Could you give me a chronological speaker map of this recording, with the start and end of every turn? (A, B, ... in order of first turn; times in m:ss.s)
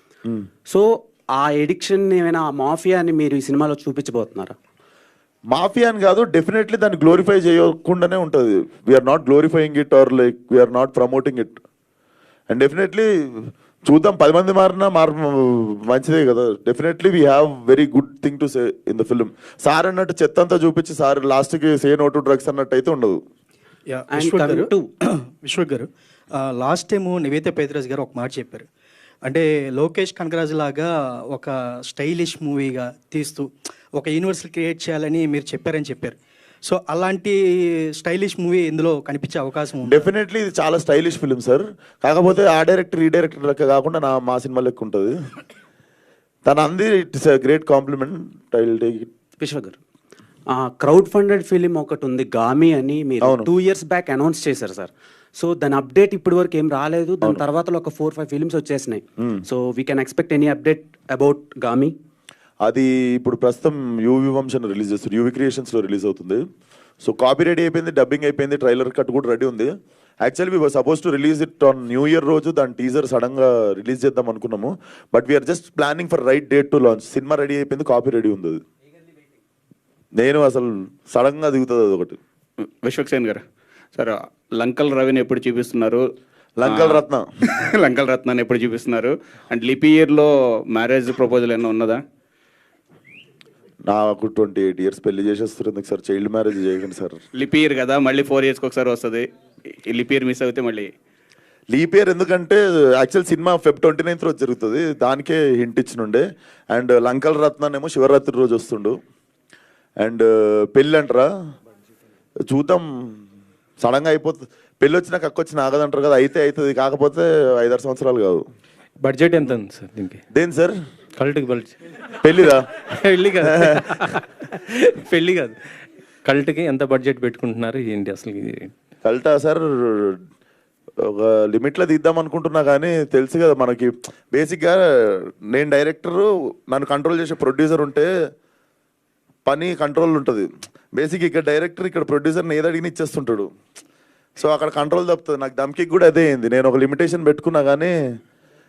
0:00.7-0:04.6 A
0:05.5-0:11.6 B
0:12.5-0:23.2 B
0:23.9-0:28.7 C
0:24.1-0:24.9 A
0:29.2-0:40.0 C
0:39.8-0:45.2 B
0:46.4-0:49.1 B
0:49.4-0:49.8 A
0:50.5-1:01.9 A
0:53.2-0:53.5 B
1:02.6-1:06.4 B
1:07.0-1:18.6 B
1:20.2-1:22.2 B
1:22.8-1:23.4 D
1:23.9-1:26.0 D
1:26.6-1:27.3 B
1:26.6-1:27.0 D
1:27.5-1:32.0 D
1:33.9-1:37.2 B
1:37.4-1:39.3 D
1:39.9-1:40.9 D
1:41.7-1:49.0 B
1:50.0-1:51.3 B
1:52.5-1:53.2 B
1:53.8-1:58.4 B
1:59.0-2:00.2 E
2:00.3-2:00.8 B
2:01.2-2:01.8 E
2:02.2-2:02.7 B
2:02.8-2:05.6 E
2:03.6-2:03.9 B
2:06.2-2:08.7 E
2:09.0-2:10.2 B
2:11.0-2:18.1 B
2:19.4-2:23.5 B
2:24.4-2:27.9 B